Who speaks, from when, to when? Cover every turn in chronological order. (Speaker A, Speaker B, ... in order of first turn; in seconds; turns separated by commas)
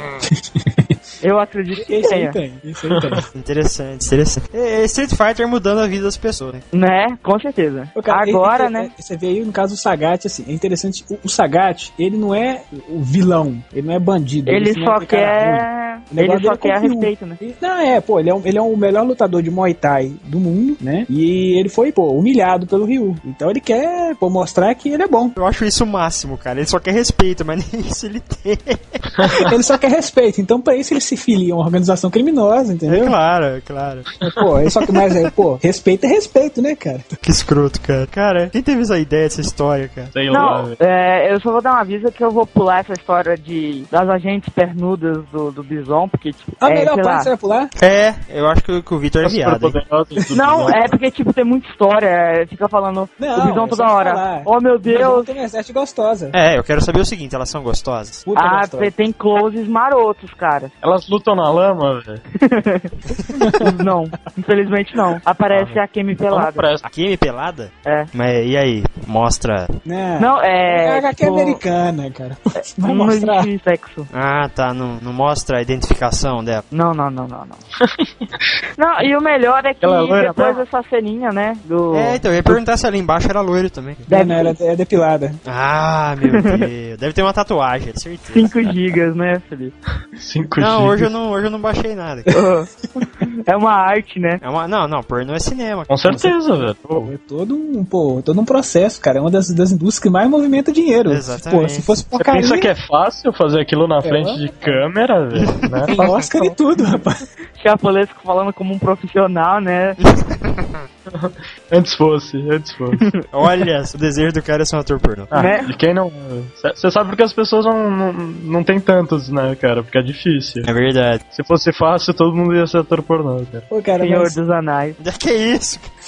Speaker A: 0.3-0.9, Speaker B: 1.2-2.4, Speaker A: 1.7-3.2, Speaker C: 3.0-3.2, Speaker D: 3.3-6.6, Speaker B: 6.7-8.9, Speaker A: 8.0-25.4, Speaker B: 14.4-17.4, Speaker D: 25.4-29.0, Speaker A: 29.3-33.1, Speaker D: 32.9-34.1, Speaker A: 34.2-37.1, Speaker D: 37.2-40.1, Speaker C: 40.1-40.7, Speaker B: 40.3-47.3, Speaker A: 46.6-47.7, Speaker D: 47.8-49.8, Speaker C: 49.2-50.9, Speaker B: 50.3-55.3, Speaker A: 53.2-56.3, Speaker D: 56.3-58.2, Speaker A: 58.3-58.9, Speaker B: 58.3-60.7, Speaker C: 60.8-62.2, Speaker B: 62.4-62.9, Speaker A: 63.4-63.7, Speaker B: 63.6-66.7, Speaker C: 66.3-66.8, Speaker D: 66.8-69.7, Speaker B: 67.8-68.1, Speaker A: 69.8-73.5, Speaker B: 70.2-71.6, Speaker B: 72.8-74.1, Speaker D: 74.1-76.6, Speaker B: 76.7-77.6, Speaker C: 77.8-78.3, Speaker B: 78.8-82.2, Speaker C: 79.8-80.6, Speaker D: 81.9-84.1, Speaker B: 84.1-84.5, Speaker A: 84.1-85.4, Speaker D: 85.5-88.7, Speaker B: 86.3-86.7, Speaker B: 88.3-89.7, Speaker C: 90.2-91.1, Speaker D: 90.6-92.3, Speaker B: 92.3-92.7, Speaker B: 93.2-94.4, Speaker D: 94.4-96.0, Speaker C: 95.9-97.1, Speaker A: 96.1-96.3, Speaker A: 97.0-102.7, Speaker D: 101.1-102.0, Speaker C: 102.2-105.9, Speaker A: 104.0-104.8, Speaker D: 105.4-106.1, Speaker A: 105.9-107.2, Speaker B: 106.0-106.5, Speaker B: 107.6-110.0, Speaker D: 110.0-110.7, Speaker C: 111.1-113.0, Speaker B: 113.0-113.3, Speaker D: 113.3-115.4, Speaker C: 115.3-120.7, Speaker B: 115.3-115.7, Speaker D: 120.6-121.2, Speaker C: 121.3-123.7, Speaker A: 123.7-124.4, Speaker B: 124.0-125.0, Speaker D: 125.0-125.9